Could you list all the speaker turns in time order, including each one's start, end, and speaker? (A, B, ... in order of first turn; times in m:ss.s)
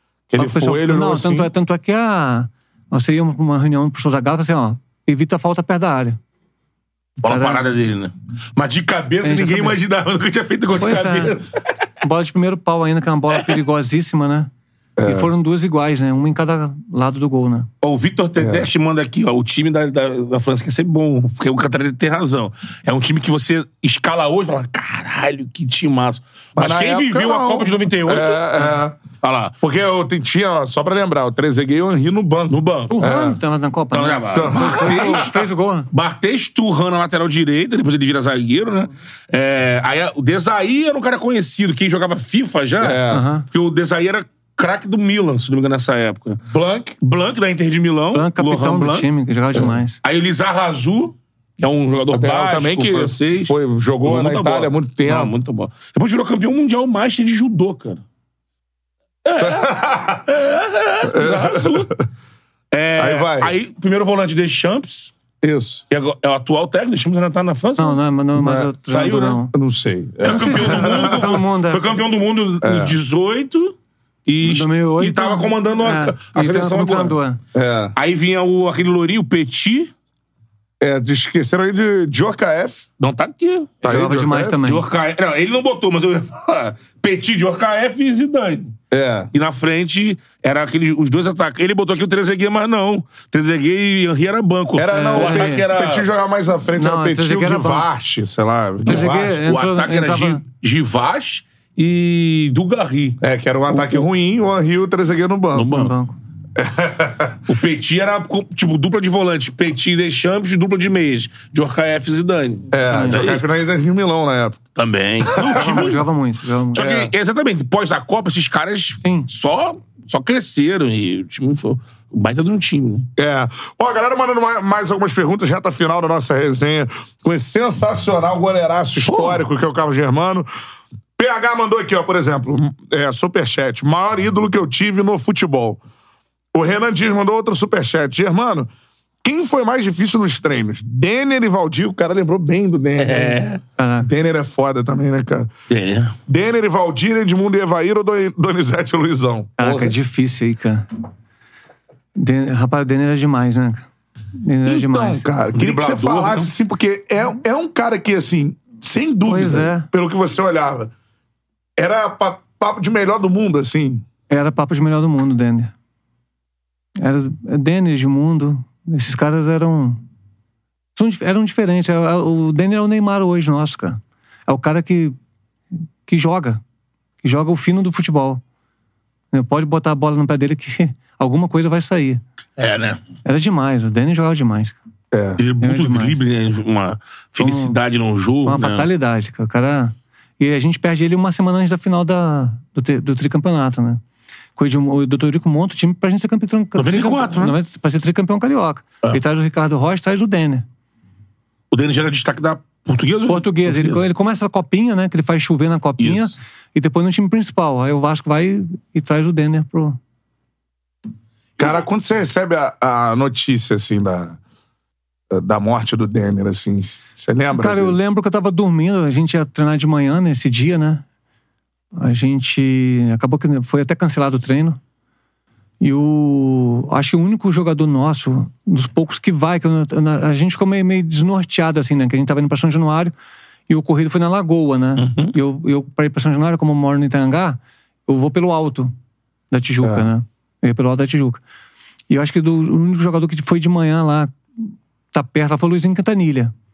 0:00.3-0:01.5 A
0:00.4-0:06.2 B
0:07.2-0:07.7 B
0:07.2-0:11.6 C
0:09.2-0:09.8 B
0:10.8-0:11.4 B
0:12.0-0:14.5 B
0:15.0-0:15.3 A
0:15.0-0:17.7 B
0:17.8-0:29.6 C
0:18.4-0:18.7 A
0:26.6-0:29.0 A
0:29.6-0:33.4 A
0:32.5-0:33.0 C
0:32.9-0:35.9 B
0:33.9-0:46.4 C
0:34.3-0:35.3 A
0:42.8-0:43.2 A
0:43.1-0:43.5 B
0:46.5-0:47.0 A
0:47.0-0:49.1 C
0:48.1-0:50.0 B
0:50.0-0:58.0 C
0:52.1-0:55.3 A
0:59.2-1:01.9 C
0:59.4-1:00.2 A
1:01.0-1:02.0 A
1:02.7-1:05.1 C
1:03.0-1:03.5 A
1:05.4-1:05.8 A
1:05.9-1:08.0 C
1:07.8-1:09.5 B
1:08.4-1:08.7 A
1:08.9-1:09.4 C
1:09.5-1:11.3 A
1:10.2-1:13.7 C
1:10.2-1:11.8 B
1:12.6-1:13.0 A
1:14.3-1:17.2 C
1:14.4-1:17.4 B
1:17.5-1:17.9 A
1:18.0-1:19.9 C
1:20.8-1:22.8 A
1:23.0-1:23.9 C
1:23.8-1:24.6 A
1:23.8-1:24.8 B
1:24.6-1:28.7 C
1:28.9-1:29.3 A
1:29.3-1:36.1 C
1:34.7-1:39.2 A
1:34.9-1:35.7 B
1:36.8-1:37.8 B
1:38.8-1:40.4 B
1:38.8-1:44.0 C
1:43.2-1:45.7 A
1:45.5-1:45.9 C
1:45.7-1:46.2 B
1:46.6-1:47.4 A
1:47.5-1:53.4 C
1:52.7-1:54.6 A
1:52.9-1:53.3 B
1:54.8-1:56.0 C
1:55.2-1:56.0 A
1:55.4-1:56.9 B
1:56.7-2:03.1 C
1:56.7-1:57.1 A
1:59.0-1:59.3 B
2:03.2-2:10.5 A
2:09.0-2:09.4 C
2:11.2-2:15.8 A
2:16.5-2:18.7 A
2:19.2-2:23.4 A
2:23.0-2:23.6 C
2:23.8-2:24.1 B
2:24.0-2:25.5 A
2:25.7-2:26.2 C
2:26.3-2:30.0 A
2:29.6-2:30.9 B
2:32.1-2:33.9 B
2:34.4-2:35.3 B
2:34.6-2:40.9 A
2:35.5-2:36.5 C
2:39.2-2:39.9 B
2:41.8-2:44.0 A
2:44.3-2:45.7 B
2:47.0-2:50.0 B
2:50.9-2:55.2 B
2:56.0-2:56.6 B
2:57.2-2:58.4 B
2:59.3-3:02.2 B
3:02.6-3:03.0 C
3:03.2-3:04.8 B
3:05.1-3:05.4 A
3:05.4-3:08.8 C
3:05.6-3:06.2 B
3:07.4-3:07.8 B
3:08.4-3:14.0 B
3:14.6-3:20.6 B
3:16.8-3:17.5 C
3:21.7-3:24.0 C
3:23.3-3:30.0 B
3:26.0-3:26.3 C
3:31.6-3:34.4 A
3:35.3-3:38.1 A
3:37.5-3:41.0 B
3:41.9-3:44.8 B
3:45.8-3:53.1 B
3:53.7-3:58.9 B
3:55.0-3:55.3 C
3:59.5-4:01.4 B
4:02.1-4:06.5 B